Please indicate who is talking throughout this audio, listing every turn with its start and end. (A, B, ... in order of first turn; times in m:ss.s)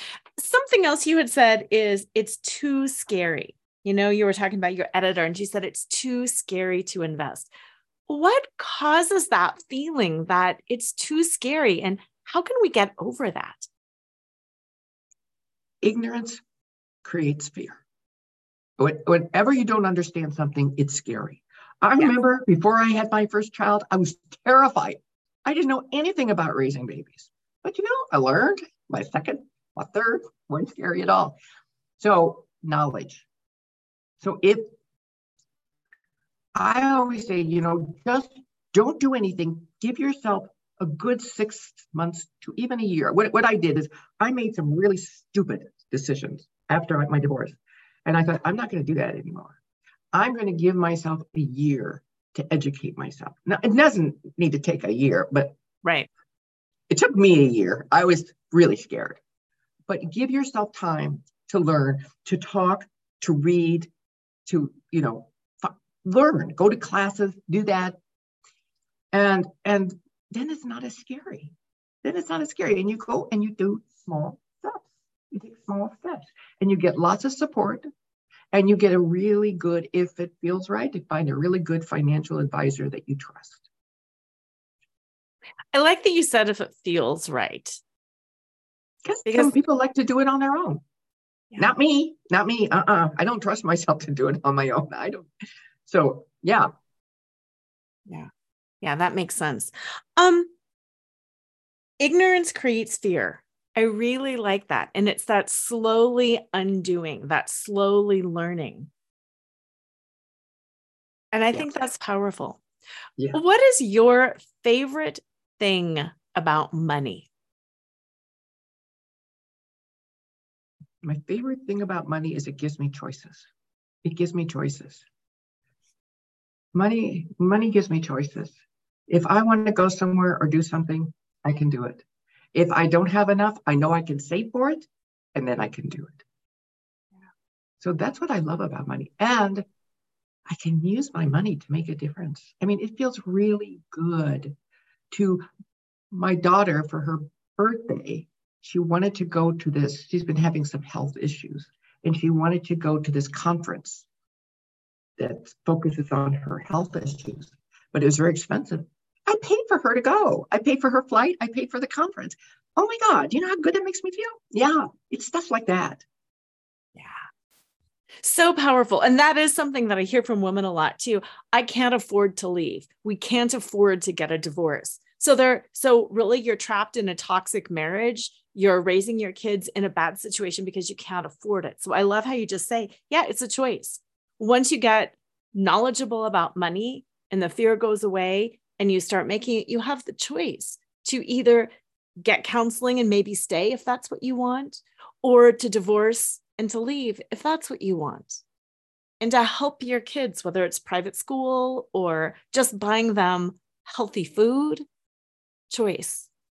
0:00.4-0:07.5 A
0:08.1-0:13.7 A
0:15.8-0:16.4 B
0:17.0-0:17.8 B
0:18.8-0:31.4 B
0:32.0-0:33.3 B
0:34.2-0:34.7 B
0:36.6-0:49.6 B
0:50.1-0:55.6 B
0:55.8-0:56.1 A
0:56.9-0:59.2 B
0:59.9-1:03.9 B
1:04.5-1:08.0 B
1:09.1-1:17.8 B
1:18.5-1:23.7 B
1:25.7-1:27.8 A
1:29.0-1:30.8 B
1:29.3-1:29.5 A
1:31.6-1:35.3 B
1:35.9-1:36.7 B
1:38.8-1:40.5 A
1:42.0-1:48.9 A
1:51.3-1:52.6 A
1:53.3-1:57.3 A
2:01.0-2:03.5 B
2:04.0-2:05.0 B
2:06.7-2:08.6 B
2:09.1-2:16.2 B
2:17.8-2:19.7 B
2:20.5-2:24.6 B
2:25.1-2:25.5 B
2:26.1-2:34.1 B
2:35.2-2:46.0 B
2:48.2-3:11.7 A
3:12.2-3:18.4 A
3:19.2-3:24.8 A
3:25.7-3:26.3 A